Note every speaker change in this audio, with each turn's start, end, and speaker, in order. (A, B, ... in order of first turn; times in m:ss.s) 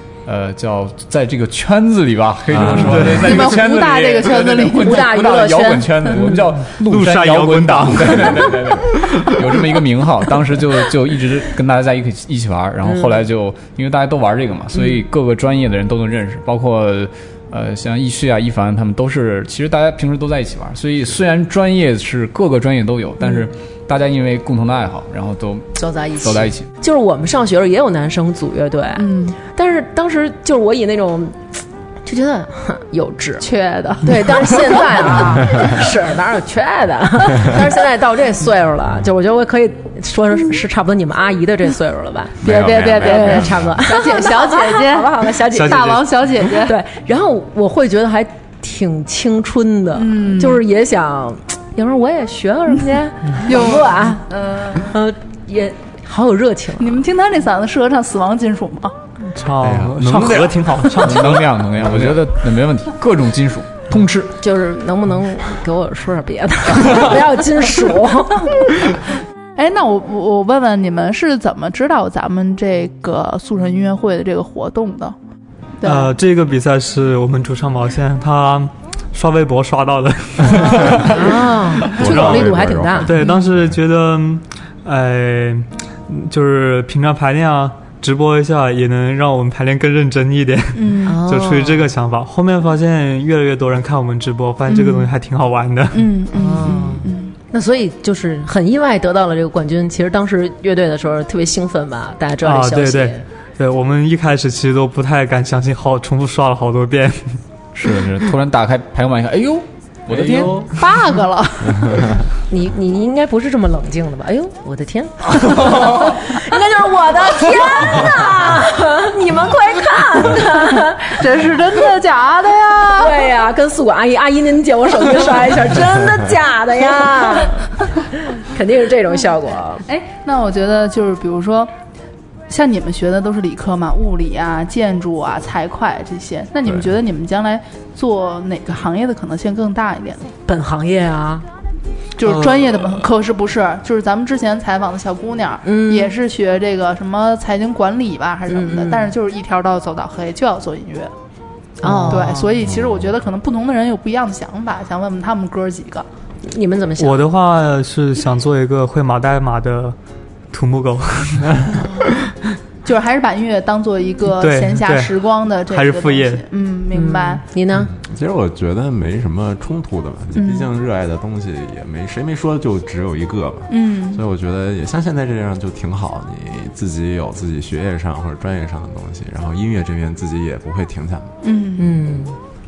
0:00.2-0:25.7 A
0:02.5-0:03.1 B
0:02.9-0:03.2 C
0:03.1-0:05.1 D
0:04.8-0:06.5 E
0:06.8-0:08.5 C
0:25.8-0:33.5 E
0:26.2-0:26.7 A
0:29.0-0:29.4 D
0:33.4-0:35.3 D
0:34.0-0:46.0 E
0:42.4-0:43.8 B
0:42.5-0:46.8 D
0:45.5-0:46.1 C
0:46.6-0:54.3 E
0:50.0-0:50.6 D
0:53.4-0:55.0 D
0:54.8-0:57.0 E
0:56.8-0:59.0 D
0:59.3-1:01.5 C
0:59.9-1:00.2 B
1:00.9-1:04.3 A
1:04.4-1:08.5 E
1:09.6-1:15.2 D
1:15.8-1:16.1 D
1:15.8-1:36.1 C
1:20.9-1:23.1 E
1:21.8-1:23.2 B
1:30.8-1:31.2 D
1:31.1-1:31.9 E
1:34.7-1:35.1 D
1:35.9-1:37.3 D
1:36.3-1:43.2 E
1:42.4-1:47.4 C
1:47.8-1:50.7 A
1:50.6-1:52.2 D
1:52.5-2:01.2 E
2:01.1-2:03.3 D
2:03.0-2:07.7 E
2:08.3-2:09.8 E
2:09.9-2:11.7 D
2:12.5-2:20.3 D
2:20.5-2:21.4 E
2:22.2-2:31.1 D
2:25.6-2:26.1 E
2:28.5-2:29.1 E
2:31.8-2:32.6 E
2:31.9-2:36.1 D
2:32.6-2:33.1 B
2:36.4-2:37.2 E
2:37.0-2:40.0 C
2:40.5-2:41.8 C
2:42.8-2:47.4 D
2:44.3-2:45.2 C
2:45.7-2:46.4 C
2:46.9-2:47.9 E
2:47.9-3:01.3 B
2:50.4-2:50.7 D
2:53.7-2:54.2 D
3:01.4-3:02.0 D
3:01.8-3:02.4 E